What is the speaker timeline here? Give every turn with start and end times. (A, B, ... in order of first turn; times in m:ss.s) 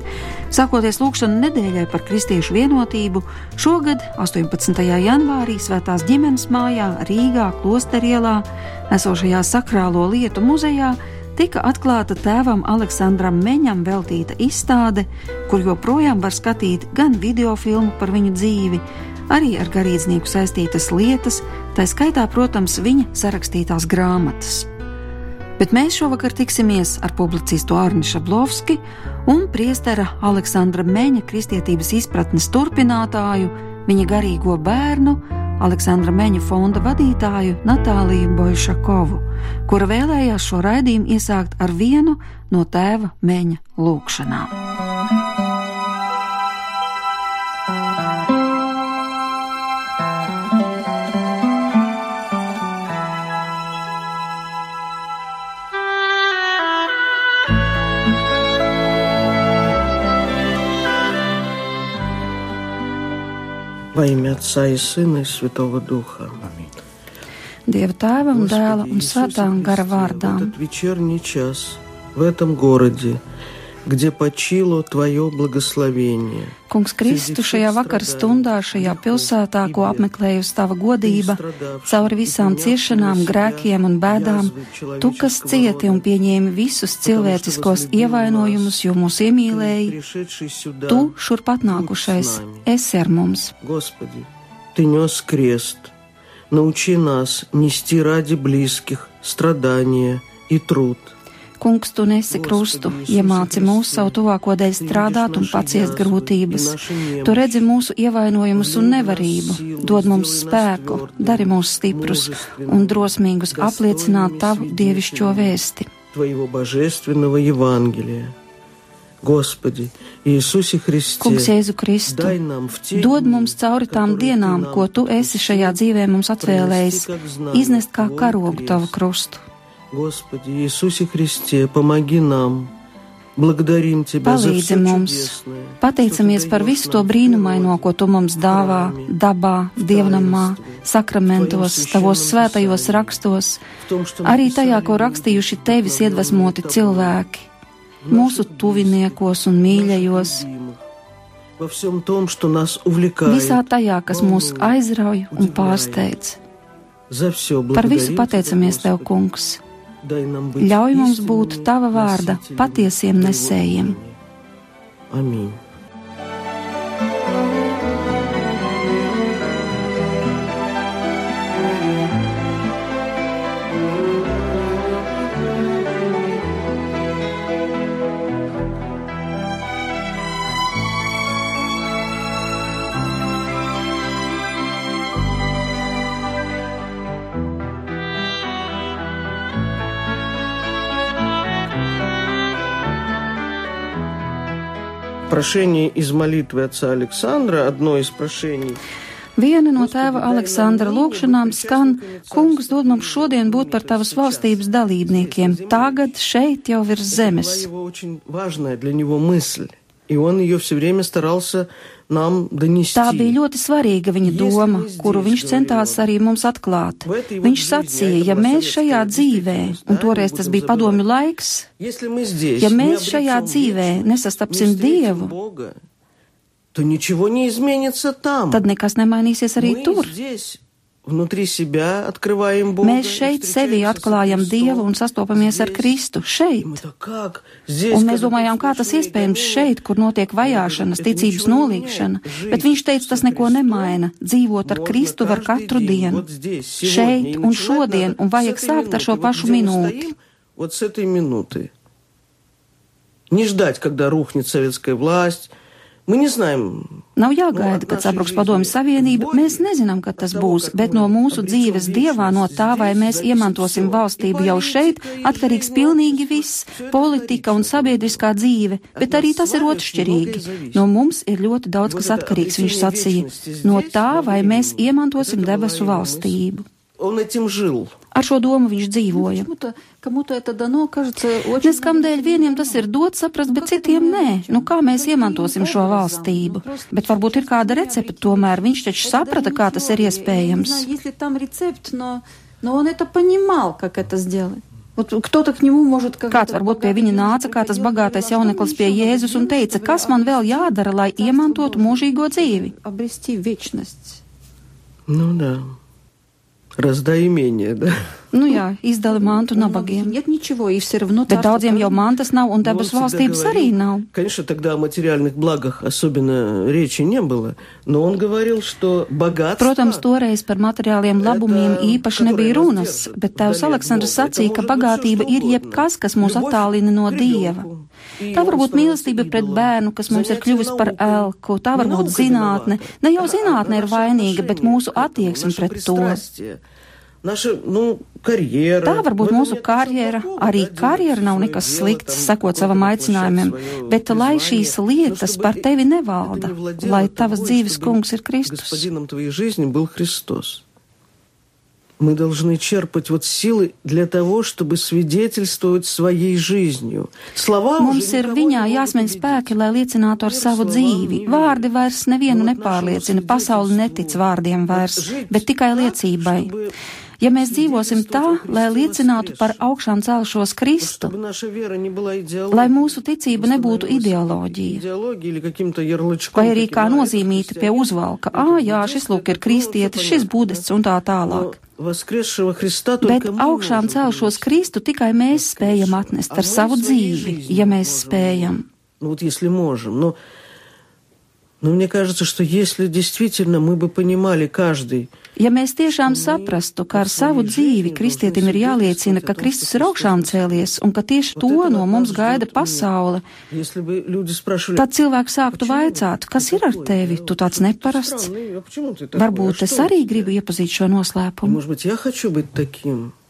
0:00.5-0:24.7 A
0:25.6-0:44.5 A
1:03.9-1:06.4 B
1:07.7-1:10.5 C
1:08.3-1:13.2 B
1:13.8-1:20.1 B
1:16.7-1:30.0 C
1:21.0-1:26.1 B
1:27.0-1:28.8 B
1:29.4-1:32.7 B
1:30.9-1:33.5 C
1:33.6-1:35.9 B
1:36.5-1:41.1 B
1:41.6-1:55.9 C
1:42.3-1:44.2 B
1:44.8-1:47.6 B
1:48.6-1:55.6 B
1:56.1-1:58.4 B
1:59.2-2:01.5 B
2:01.2-2:02.4 C
2:02.1-2:05.8 B
2:02.9-2:09.4 C
2:06.4-2:09.0 B
2:09.9-2:12.7 B
2:13.4-2:17.9 B
2:14.2-2:23.6 C
2:18.4-2:19.1 B
2:19.8-2:23.2 B
2:23.8-2:27.2 B
2:24.2-2:27.5 C
2:28.0-2:30.8 B
2:28.1-2:30.4 C
2:31.6-2:34.8 B
2:33.3-2:36.4 C
2:35.3-2:36.1 B
2:37.1-2:39.1 B
2:37.7-2:39.6 C
2:40.0-2:44.2 B
2:40.6-2:44.0 C
2:45.1-2:45.6 B
3:15.3-3:18.8 B
3:19.4-3:27.7 C
3:19.8-3:26.1 B
3:27.1-3:33.4 B
3:33.0-3:41.7 C
3:34.2-3:36.1 B
3:37.0-3:41.0 B
3:41.8-3:45.8 B
3:42.6-3:45.3 C
3:46.7-3:48.7 B
3:48.5-3:50.1 C
3:49.6-3:56.0 B
3:52.8-3:56.8 C
3:56.6-3:59.7 B
3:57.9-4:06.2 C
4:00.4-4:04.0 B
4:04.6-4:11.7 B
4:06.8-4:10.1 C
4:13.3-4:15.5 B
4:16.1-4:17.0 B
4:17.2-4:36.6 C
4:17.5-4:28.3 B
4:29.0-4:30.9 B
4:31.8-4:36.4 B
4:37.0-4:38.0 B
4:38.1-4:39.5 C
4:39.1-4:42.9 A
4:41.6-4:50.9 C
4:43.5-5:04.2 A
4:56.3-5:02.7 C
5:05.1-5:05.8 B
5:06.8-5:08.1 B
5:08.3-5:10.1 C
5:09.1-5:12.1 A
5:11.3-5:14.1 C
5:12.6-5:20.0 B
5:19.6-5:27.7 C
5:21.2-5:36.6 B
5:28.3-5:36.2 C
5:37.2-5:45.7 B
5:38.8-5:48.9 C
5:46.2-5:50.6 B
5:52.0-5:59.6 B
5:57.8-6:06.5 C
6:00.2-6:01.7 B
6:02.3-6:06.8 B
6:07.2-6:11.1 C
6:07.3-6:09.6 B
6:10.8-6:20.7 B
6:12.5-6:14.8 C
6:16.4-6:21.6 C
6:21.3-6:24.6 B
6:23.0-6:28.6 C
6:25.3-6:30.2 B
6:31.6-6:35.1 B
6:35.4-6:43.3 C
6:35.9-6:40.7 B
6:41.4-6:42.9 B
6:43.5-6:44.9 B
6:44.8-6:48.3 C
6:45.5-6:50.3 B
6:49.2-6:51.6 C
6:51.4-6:53.1 B